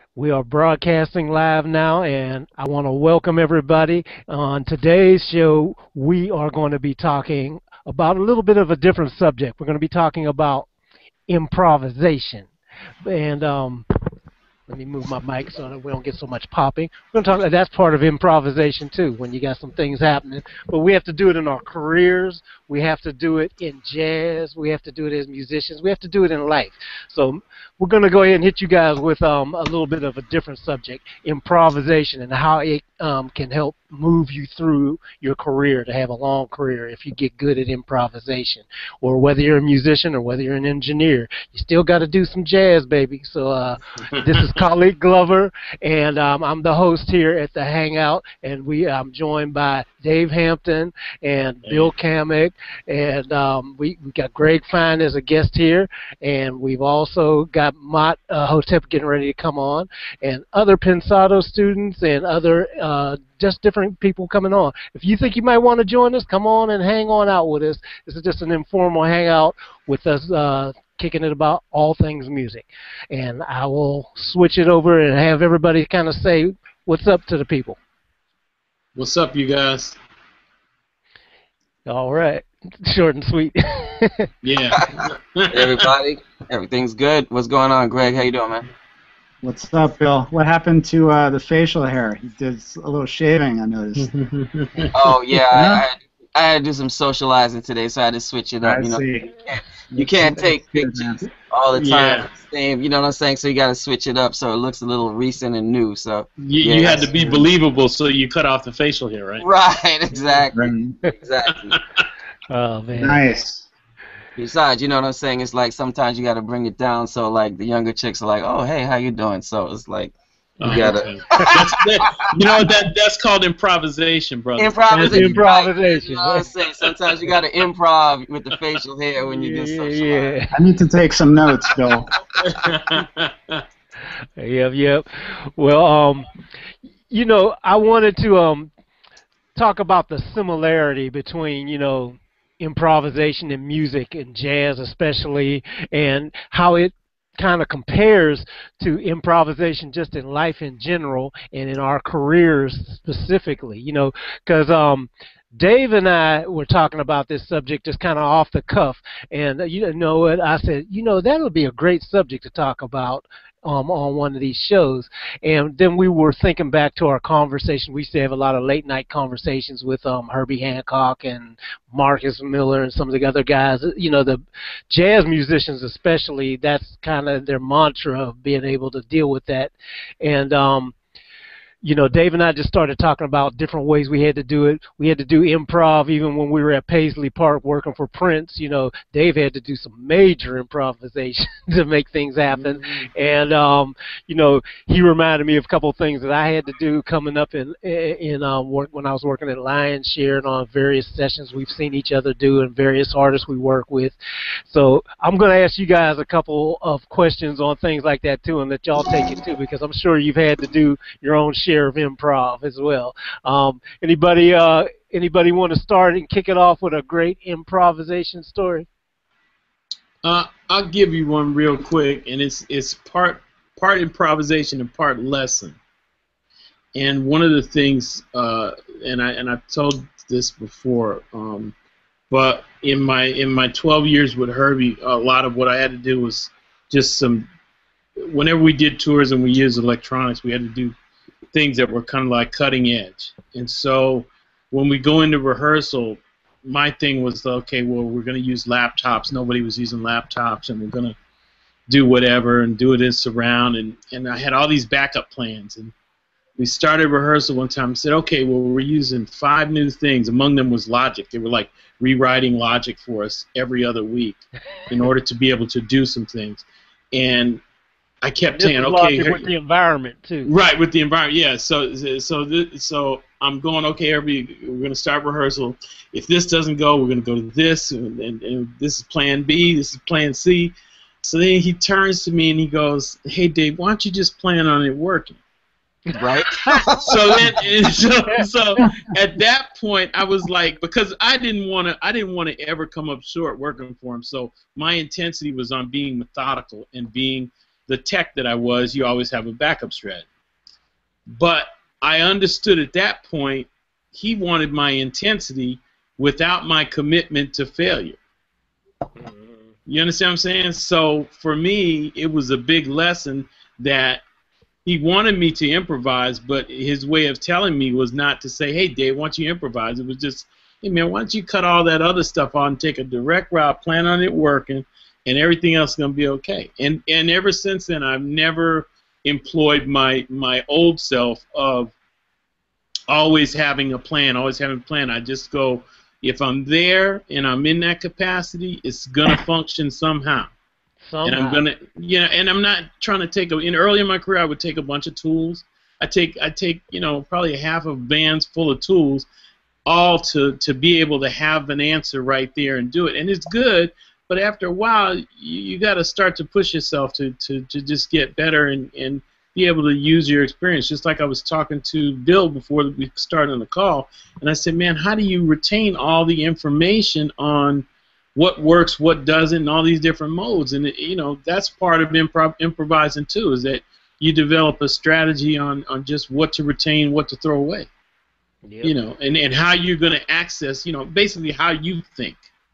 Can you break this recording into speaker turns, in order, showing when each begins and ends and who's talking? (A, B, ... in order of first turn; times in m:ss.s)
0:00.2-0:10.7 A
0:11.3-0:12.5 A
0:13.0-0:13.9 A
0:14.7-1:17.8 A
0:44.1-0:44.6 B
0:51.6-0:51.9 B
1:19.0-1:20.0 B
1:21.9-1:24.3 A
1:24.4-1:25.9 B
1:24.7-1:28.6 C
1:29.4-1:34.1 D
1:34.0-1:35.1 B
1:34.9-1:47.4 C
1:35.5-1:35.8 D
1:38.6-1:39.4 D
1:39.9-1:41.3 D
1:41.8-1:42.3 B
1:46.4-1:49.5 B
1:47.0-1:47.4 D
1:49.4-1:51.8 C
1:50.5-1:51.0 D
1:51.7-1:52.0 B
1:52.5-1:53.2 A
1:53.0-1:53.7 D
1:54.4-2:02.7 C
2:00.6-2:05.4 B
2:04.6-2:10.4 C
2:04.9-2:06.5 A
2:09.2-2:10.5 A
2:10.5-2:12.1 D
2:11.9-2:13.0 C
2:12.4-2:13.6 B
2:14.4-2:16.3 A
2:17.1-2:18.7 A
2:19.6-3:01.0 A
3:01.8-3:24.1 A
3:12.5-3:13.1 B
3:24.7-3:38.9 A
3:40.2-3:45.8 B
3:47.0-3:51.8 B
3:52.3-3:57.5 B
3:58.2-4:01.0 B
4:01.5-4:11.2 B
4:11.9-4:15.9 B
4:16.6-4:27.6 B
4:28.2-4:29.5 B
4:28.6-4:30.5 A
4:30.4-4:45.4 B
4:46.1-4:47.5 C
4:47.1-5:00.3 B
5:01.3-5:08.2 B
5:09.2-5:09.7 A
5:09.9-5:14.2 B
5:14.8-5:31.9 B
5:33.1-5:40.5 B
5:41.1-5:41.6 A
5:41.2-5:49.3 B
5:49.9-6:17.9 B
6:18.7-6:18.9 A
6:18.8-6:22.4 B